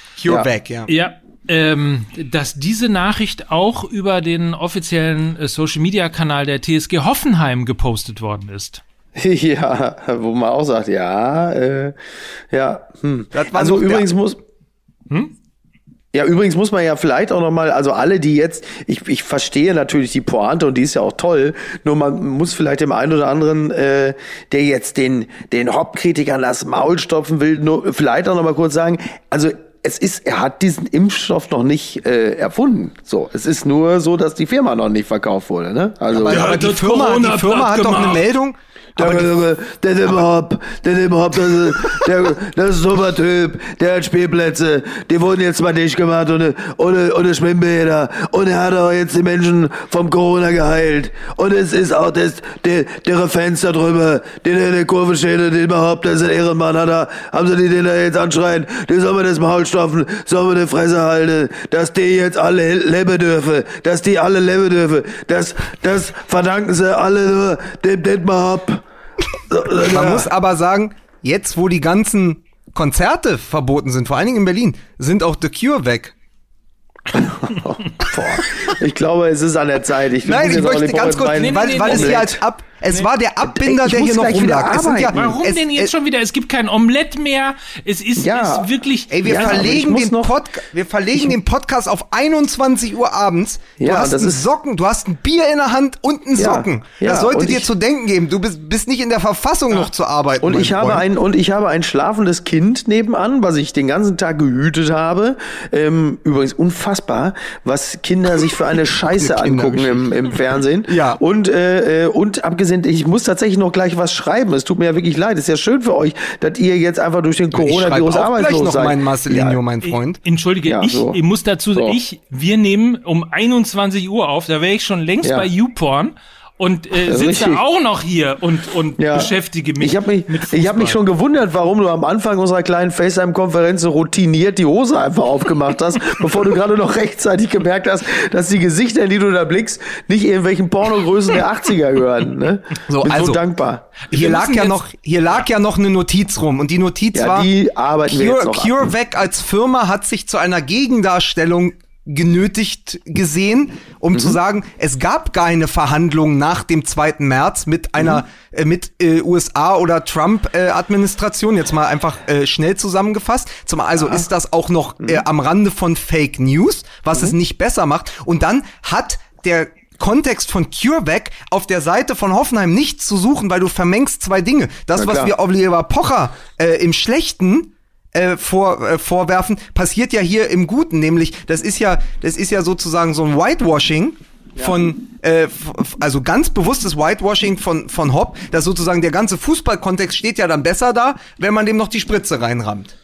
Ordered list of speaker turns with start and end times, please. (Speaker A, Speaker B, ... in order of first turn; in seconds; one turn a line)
Speaker A: 0.2-0.9
Speaker B: 0.9-8.8
Speaker C: 9.2-11.9
Speaker C: 12.5-14.4
Speaker A: 13.3-14.1
Speaker C: 16.1-36.6
Speaker A: 36.1-39.3
Speaker B: 36.3-38.2
Speaker C: 39.0-68.8
Speaker C: 69.4-70.3
Speaker A: 69.8-76.1
Speaker C: 77.1-82.4
Speaker A: 80.2-85.9
Speaker B: 81.3-82.3
Speaker C: 83.4-85.2
Speaker B: 85.1-89.7
Speaker C: 88.2-88.7
Speaker A: 89.1-101.0
Speaker C: 89.2-90.3
Speaker C: 93.8-94.5
Speaker C: 96.4-97.7
Speaker C: 100.4-119.6
Speaker A: 109.1-110.1
Speaker A: 110.9-111.2
Speaker A: 117.5-120.2
Speaker B: 119.8-131.0
Speaker C: 120.7-121.2
Speaker C: 125.2-125.5
Speaker C: 127.0-127.6
Speaker C: 129.0-144.0
Speaker A: 142.9-143.4
Speaker B: 144.1-144.8
Speaker A: 144.1-147.5
Speaker C: 147.1-148.8
Speaker A: 148.1-192.9
Speaker C: 174.9-175.3
Speaker C: 184.6-184.9